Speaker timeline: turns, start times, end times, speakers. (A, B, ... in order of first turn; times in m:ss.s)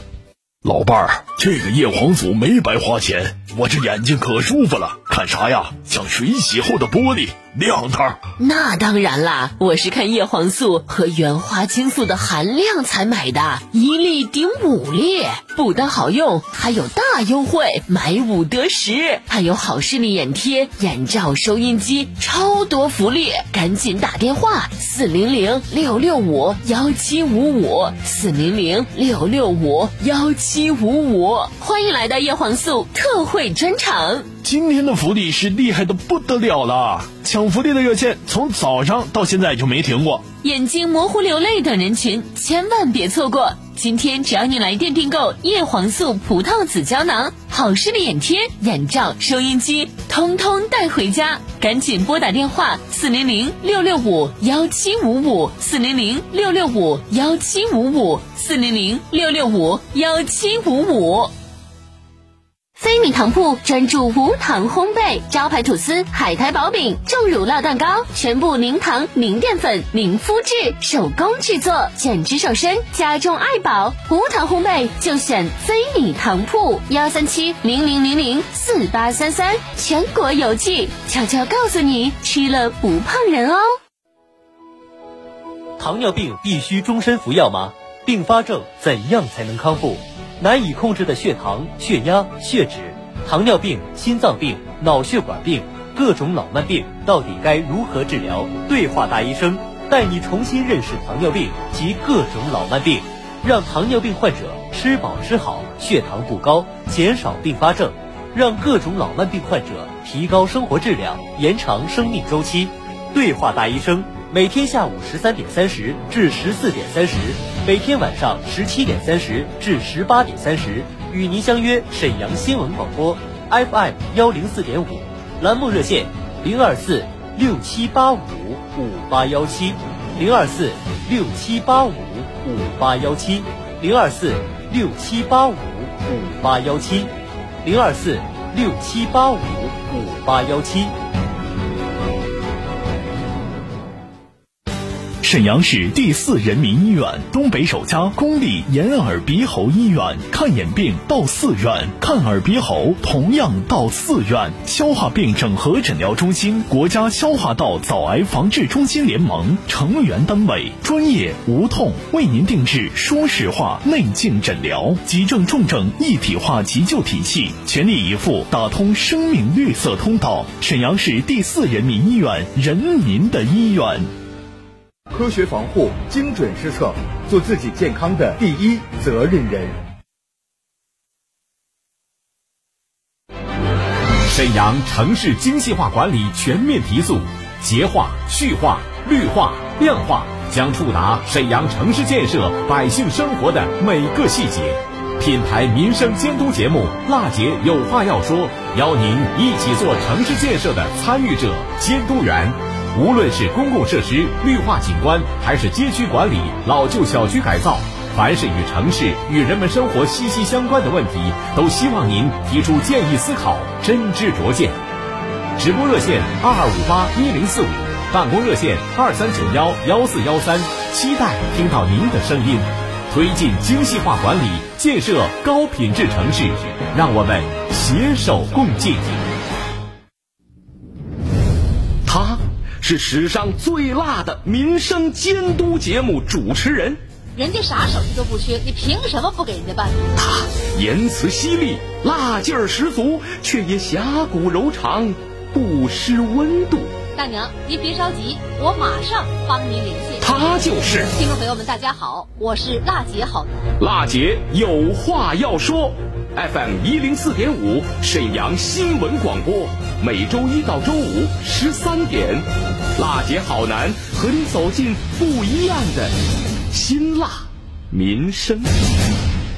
0:00.6-0:08.2 A
0:08.4-0:34.3 B
0:34.4-0:40.2 A
0:40.4-1:01.3 B
1:02.8-1:23.7 B
1:25.8-2:17.1 C
2:17.6-2:20.9 C
2:25.2-2:54.1 A
2:55.1-2:59.8 D
3:04.3-3:34.8 E
3:35.6-3:49.2 E
3:52.0-3:57.0 F
3:57.4-4:00.1 G
4:00.2-4:06.9 F
4:07.1-4:10.3 G
4:10.2-4:11.1 F
4:11.0-4:13.7 G
4:13.8-4:26.2 F
4:26.7-4:28.7 F